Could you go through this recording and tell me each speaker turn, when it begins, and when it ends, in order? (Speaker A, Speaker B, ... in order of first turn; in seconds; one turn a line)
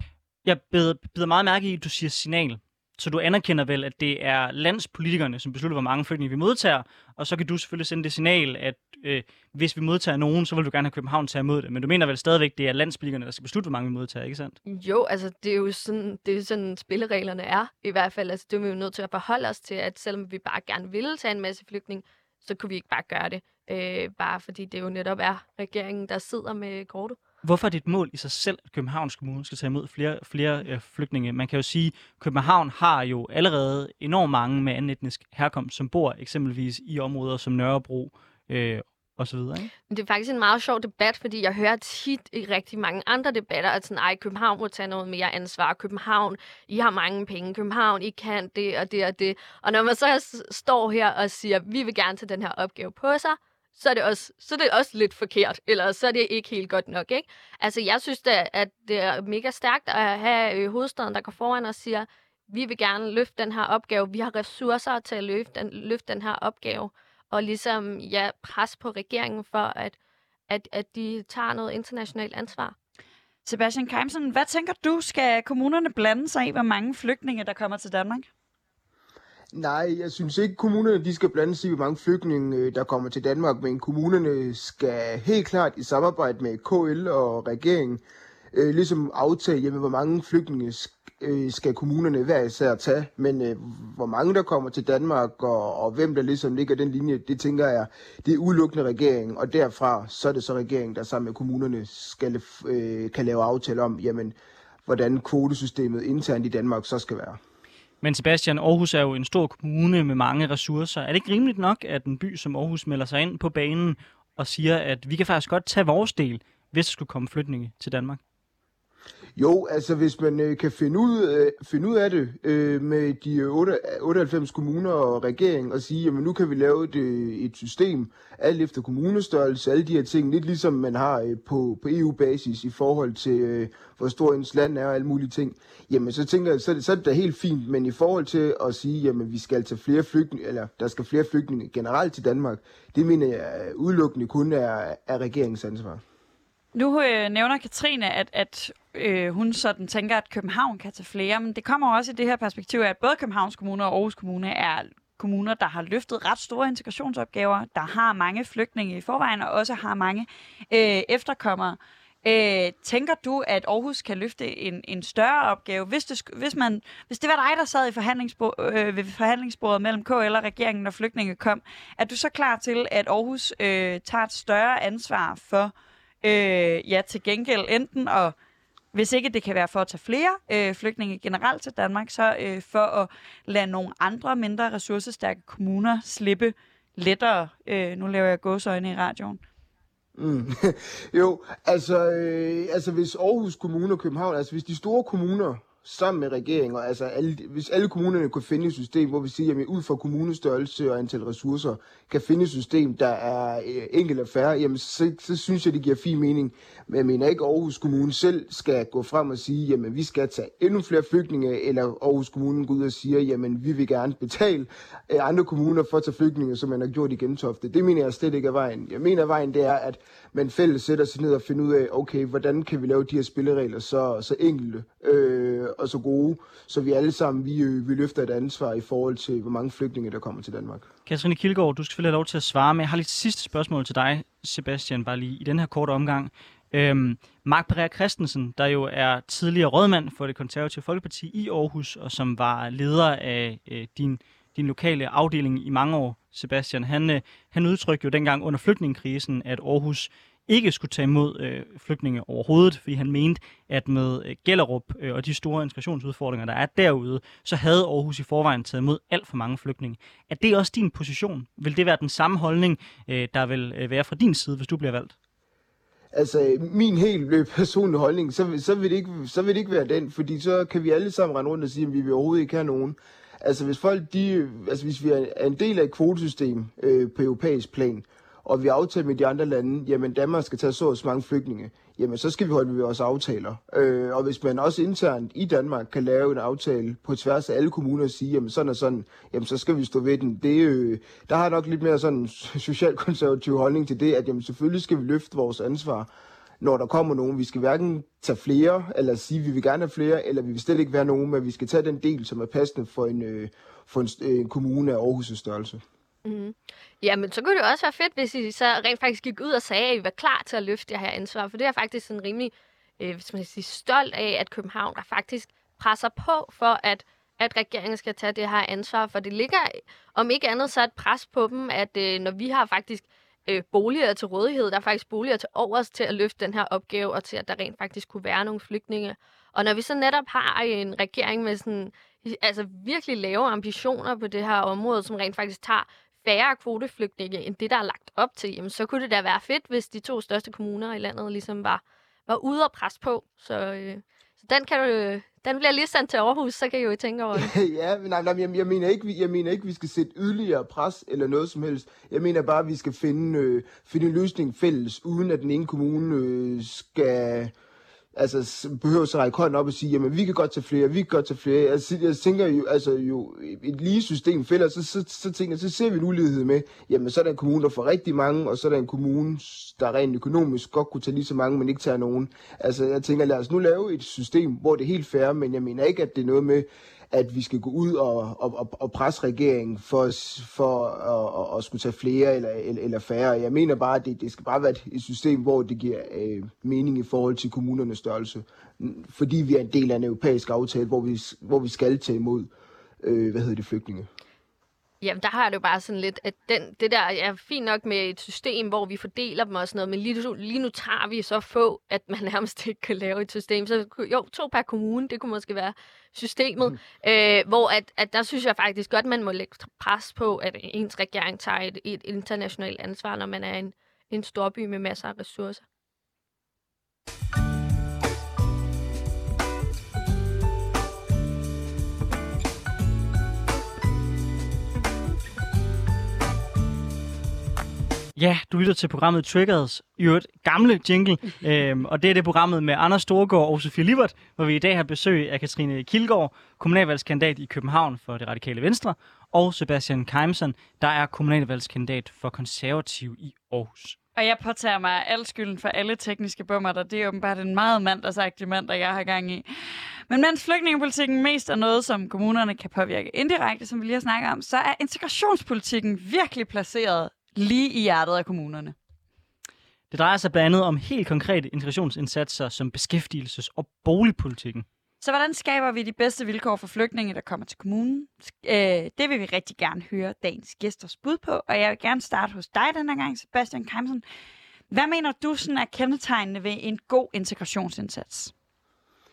Speaker A: 0.4-14.6
Speaker B: 14.7-27.2
Speaker A: 27.4-39.7
Speaker B: 39.9-70.0
Speaker B: 70.5-72.7
Speaker C: 73.5-78.2
Speaker D: 79.5-88.0
Speaker D: 88.5-104.3
Speaker D: 104.8-107.4
Speaker A: 108.0-118.2
Speaker D: 119.3-146.0
Speaker C: 146.7-175.7
Speaker C: 176.2-178.3
Speaker C: 178.9-189.4
Speaker D: 190.2-230.9
Speaker A: 231.1-265.1
Speaker D: 266.1-296.1
Speaker D: 296.6-305.8
Speaker B: 306.2-347.5
Speaker D: 347.3-357.5
Speaker D: 358.1-392.5
Speaker D: 393.0-394.1
Speaker B: 395.0-415.6
Speaker A: 428.1-444.0
Speaker C: 444.1-449.4
Speaker C: 450.1-458.7
Speaker A: 459.9-464.6
Speaker C: 465.0-474.0
Speaker C: 474.7-478.3